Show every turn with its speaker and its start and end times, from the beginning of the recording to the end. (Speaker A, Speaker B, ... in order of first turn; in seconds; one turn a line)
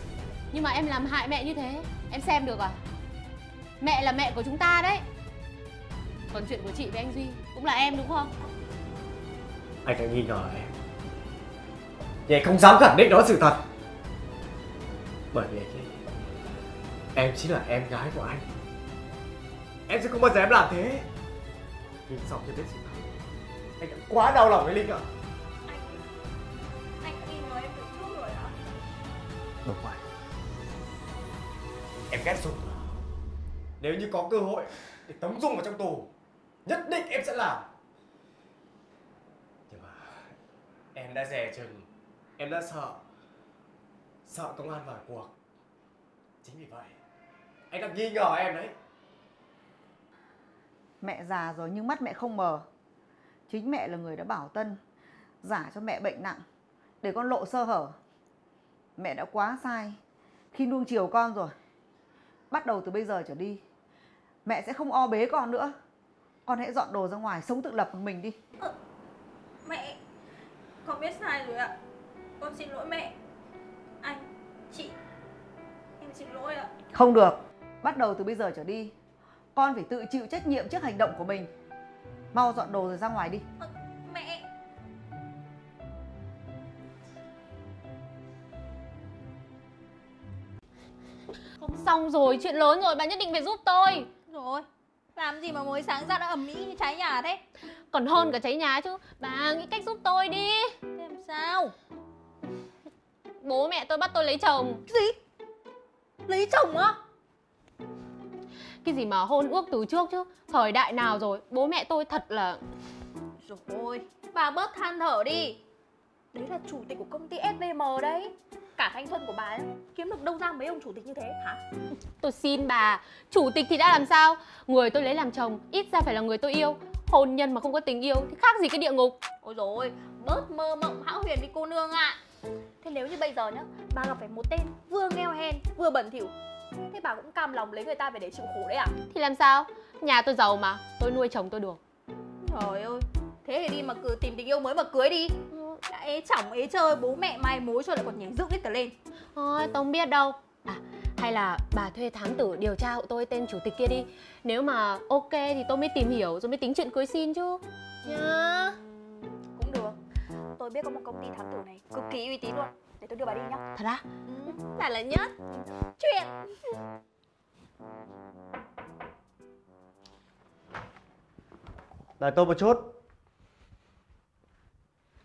Speaker A: 0.5-2.8
Speaker A: 3.8-5.0
Speaker A: 6.3-8.3
Speaker B: 9.8-10.7
Speaker B: 12.3-13.6
Speaker B: 15.3-15.9
Speaker B: 17.1-18.4
Speaker B: 19.9-21.1
Speaker B: 22.1-23.0
Speaker B: 23.8-25.1
Speaker C: 27.0-28.5
Speaker B: 29.6-30.0
Speaker B: 32.1-32.9
Speaker B: 33.8-36.1
Speaker B: 36.7-37.7
Speaker B: 39.7-40.3
Speaker B: 41.0-41.9
Speaker B: 42.4-43.0
Speaker B: 44.3-45.3
Speaker B: 46.4-47.0
Speaker B: 47.7-48.8
Speaker D: 51.0-52.7
Speaker D: 53.5-54.8
Speaker D: 55.4-56.4
Speaker D: 57.0-58.0
Speaker D: 59.0-60.0
Speaker D: 60.5-61.5
Speaker D: 62.5-63.6
Speaker D: 64.5-65.8
Speaker D: 66.5-68.4
Speaker C: 69.7-70.0
Speaker C: 70.8-71.7
Speaker C: 72.4-73.1
Speaker C: 74.0-74.9
Speaker C: 76.0-76.7
Speaker D: 76.9-78.9
Speaker D: 79.5-81.5
Speaker D: 82.3-83.4
Speaker C: 83.6-84.4
Speaker A: 91.6-94.1
Speaker C: 94.3-97.4
Speaker A: 97.9-100.8
Speaker C: 101.0-101.7
Speaker A: 103.4-104.8
Speaker C: 104.9-105.2
Speaker C: 106.3-107.0
Speaker A: 108.8-112.6
Speaker C: 113.4-115.6
Speaker C: 116.3-121.6
Speaker A: 122.2-129.2
Speaker C: 129.4-132.2
Speaker C: 132.8-136.3
Speaker C: 136.9-138.9
Speaker A: 139.1-141.8
Speaker C: 142.4-148.9
Speaker A: 149.4-158.8
Speaker C: 159.6-160.0
Speaker C: 160.6-163.6
Speaker C: 166.0-166.3
Speaker B: 172.2-172.9